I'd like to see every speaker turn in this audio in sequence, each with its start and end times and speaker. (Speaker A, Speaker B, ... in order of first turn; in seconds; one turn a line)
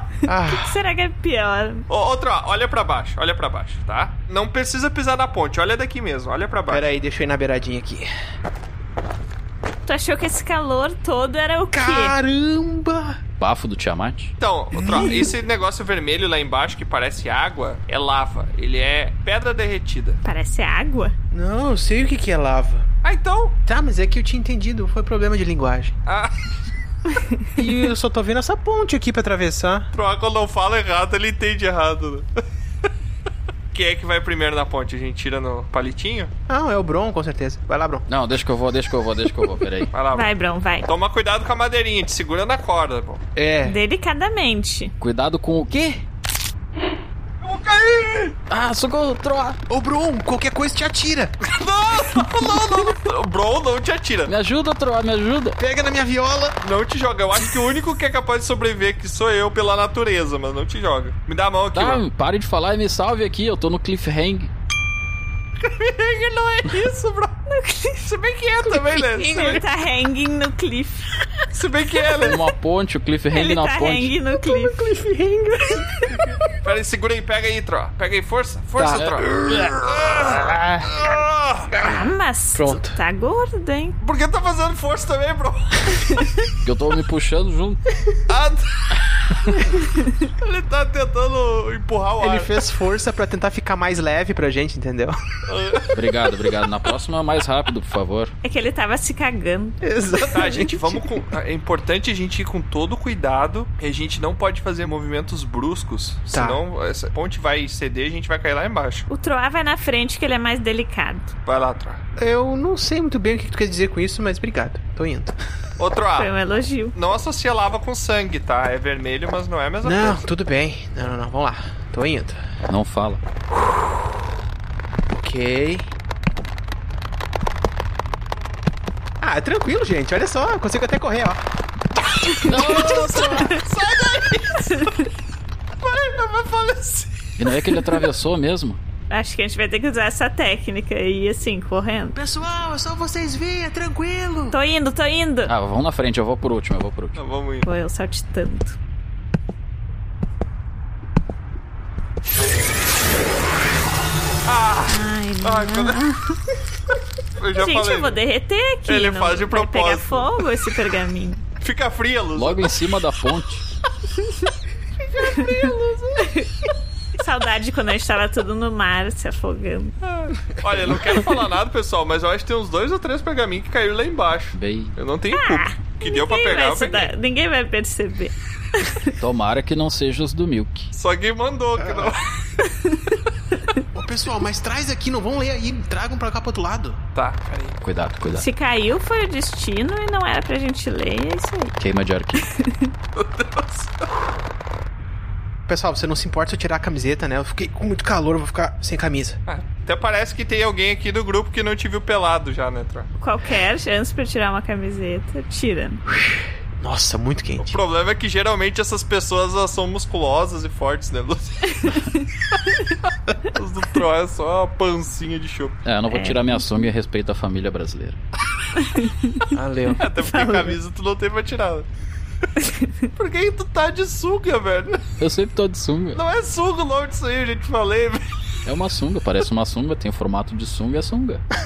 Speaker A: 0.2-0.7
Speaker B: 0.5-1.8
Speaker C: 1.9-6.9
Speaker A: 6.7-8.1
Speaker B: 9.8-12.2
Speaker A: 11.7-13.2
Speaker D: 13.4-14.3
Speaker C: 14.4-20.2
Speaker A: 14.7-15.3
Speaker B: 20.2-21.1
Speaker A: 21.3-22.9
Speaker C: 23.0-23.6
Speaker A: 23.6-25.9
Speaker C: 26.1-26.5
Speaker B: 27.1-27.4
Speaker A: 27.6-29.9
Speaker C: 29.9-32.3
Speaker C: 33.7-36.3
Speaker A: 36.5-38.0
Speaker D: 38.1-39.9
Speaker C: 39.9-40.3
Speaker B: 40.1-40.9
Speaker C: 40.8-43.2
Speaker A: 43.4-43.8
Speaker B: 43.6-44.9
Speaker D: 45.0-46.0
Speaker C: 47.4-48.4
Speaker D: 48.5-49.6
Speaker A: 49.7-51.3
Speaker C: 51.4-54.3
Speaker D: 54.3-55.6
Speaker A: 55.6-56.6
Speaker C: 56.6-62.0
Speaker D: 61.7-64.5
Speaker C: 65.6-67.3
Speaker B: 67.5-68.1
Speaker C: 68.0-69.6
Speaker A: 69.1-69.6
Speaker B: 69.2-71.2
Speaker C: 71.5-72.4
Speaker D: 72.2-74.1
Speaker B: 73.3-74.9
Speaker A: 74.4-76.5
Speaker C: 76.6-81.8
Speaker A: 78.8-81.0
Speaker D: 78.9-79.7
Speaker A: 81.7-83.0
Speaker B: 81.8-84.0
Speaker C: 84.0-86.1
Speaker D: 86.6-87.8
Speaker C: 88.3-89.0
Speaker B: 89.8-90.2
Speaker C: 90.4-92.5
Speaker A: 92.2-95.2
Speaker C: 95.5-96.2
Speaker D: 95.9-98.3
Speaker B: 98.4-100.5
Speaker A: 99.8-101.0
Speaker C: 100.3-109.0
Speaker A: 106.3-106.6
Speaker B: 109.1-111.3
Speaker C: 111.5-112.0
Speaker A: 112.2-115.3
Speaker C: 115.8-116.3
Speaker B: 116.2-116.9
Speaker C: 116.9-120.2
Speaker A: 119.8-122.4
Speaker D: 122.7-123.2
Speaker A: 125.1-125.9
Speaker A: 129.2-131.4
Speaker A: 132.3-133.5
Speaker B: 132.3-133.6
Speaker D: 132.4-133.6
Speaker C: 132.5-134.9
Speaker B: 134.6-135.1
Speaker C: 135.8-137.1
Speaker D: 137.4-138.8
Speaker B: 139.1-142.2
Speaker A: 142.1-144.6
Speaker B: 144.5-145.5
Speaker D: 145.5-147.2
Speaker C: 147.2-147.7
Speaker B: 147.6-148.8
Speaker C: 154.4-156.0
Speaker B: 154.9-156.4
Speaker C: 157.4-158.2
Speaker B: 157.5-161.4
Speaker C: 158.8-160.5
Speaker C: 161.6-162.9
Speaker D: 162.3-163.6
Speaker B: 165.2-165.6
Speaker C: 165.3-166.1
Speaker A: 165.3-165.6
Speaker B: 166.2-166.5
Speaker B: 167.2-169.9
Speaker C: 170.0-177.1
Speaker D: 174.5-174.9
Speaker B: 175.3-179.1
Speaker D: 179.2-180.9
Speaker C: 180.9-182.3
Speaker A: 181.8-182.2
Speaker B: 182.6-183.2
Speaker A: 183.9-187.0
Speaker C: 187.1-187.8
Speaker D: 187.8-188.4
Speaker B: 188.3-191.8
Speaker D: 191.8-192.5
Speaker B: 192.6-192.9
Speaker C: 193.2-193.9
Speaker A: 195.7-199.4
Speaker C: 199.5-203.1
Speaker B: 203.2-206.0
Speaker A: 206.8-207.8
Speaker C: 207.6-211.8
Speaker B: 211.8-212.3
Speaker C: 213.5-215.8
Speaker D: 215.8-218.2
Speaker B: 216.1-216.8
Speaker B: 218.8-219.5
Speaker A: 219.5-220.4
Speaker C: 220.0-221.9
Speaker B: 220.2-220.7
Speaker B: 222.6-223.0
Speaker C: 223.1-225.0
Speaker D: 225.2-226.2
Speaker C: 226.1-228.2
Speaker D: 228.6-231.4